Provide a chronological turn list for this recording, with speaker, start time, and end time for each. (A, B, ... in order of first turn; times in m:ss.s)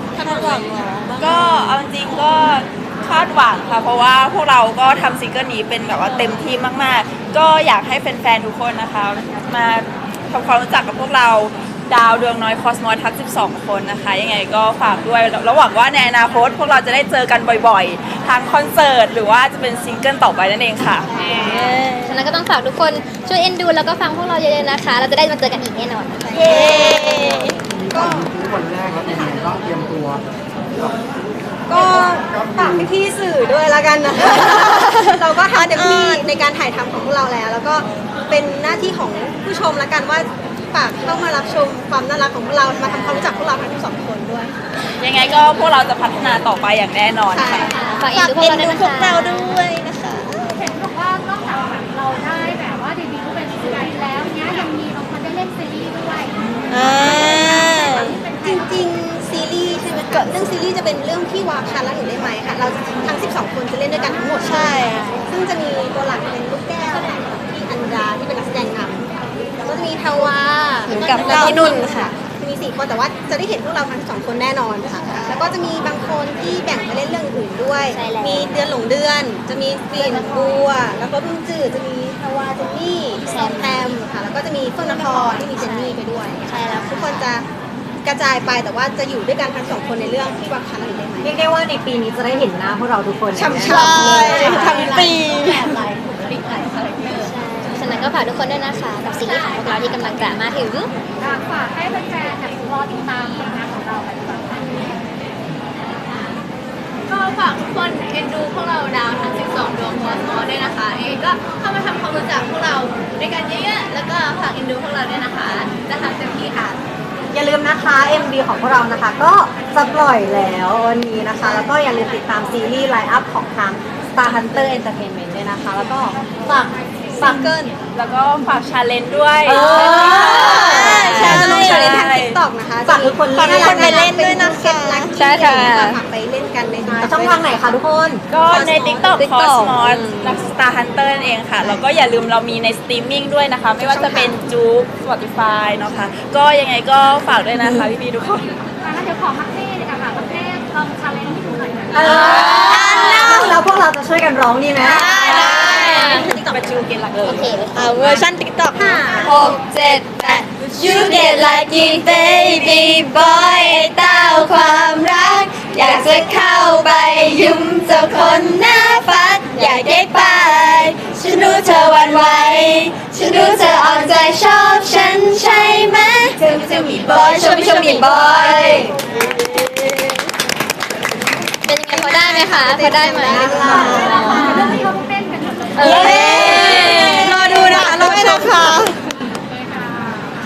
0:00.1-0:00.9 A
0:00.2-0:01.8 B
0:01.2-0:21.1 C
0:21.0-0:21.7 A
0:21.5-0:27.6 B
0:26.2-0:28.3 A
0:27.9-0:30.2 D
0:31.7-0:44.5 A
0:31.7-0:32.7 D
0:35.5-0:36.3 B
0:42.9-0:43.3 B
0:45.0-0:47.7 C
0:47.3-0:47.9 A
0:47.8-0:50.4 B
0:48.1-0:49.6 E
0:50.5-0:58.8 F
0:56.4-0:56.8 C
0:56.7-0:58.2 B
0:56.9-1:09.1 A
1:04.4-1:05.1 B
1:09.6-1:27.4 A
1:10.9-1:12.1 E
1:11.1-1:11.6 B
1:17.9-1:18.7 B
1:19.9-1:20.5 B
1:23.3-1:23.9 B
1:24.9-1:27.3 B
1:28.0-1:31.4 A
1:31.2-1:35.1 G
1:33.3-1:35.1 A
1:33.7-1:35.7 B
1:33.8-1:38.0 H
1:37.2-1:40.9 B
1:39.0-1:40.5 H
1:41.2-1:45.0 F
1:47.1-1:56.8 H
1:57.3-2:07.5 G
2:01.4-2:01.7 A
2:07.2-2:07.7 A
2:07.9-2:12.4 C
2:09.5-2:17.6 A
2:09.9-2:11.4 B
2:10.5-2:11.7 E
2:12.8-2:14.0 G
2:13.3-2:15.2 B
2:15.2-2:16.0 E
2:16.9-2:18.2 G
2:18.3-2:28.5 C
2:18.4-2:19.2 A
2:19.2-2:20.4 E
2:23.8-2:24.4 A
2:27.6-2:27.9 G
2:28.6-2:32.4 F
2:31.9-2:35.1 G
2:31.9-2:33.6 A
2:32.1-2:33.3 C
2:32.3-2:33.3 E
2:32.6-2:33.4 B
2:34.8-2:36.9 A
2:34.9-2:38.2 C
2:35.0-2:36.2 B
2:37.2-2:39.4 B
2:38.7-2:39.5 A
2:39.2-2:58.9 E
2:40.6-2:41.4 C
2:57.3-2:58.1 B
3:01.7-3:04.4 E
3:01.9-3:04.8 A
3:03.1-3:04.3 B
3:03.7-3:06.6 F
3:05.8-3:09.0 B
3:05.8-3:08.9 A
3:06.0-3:07.3 E
3:09.5-3:10.4 F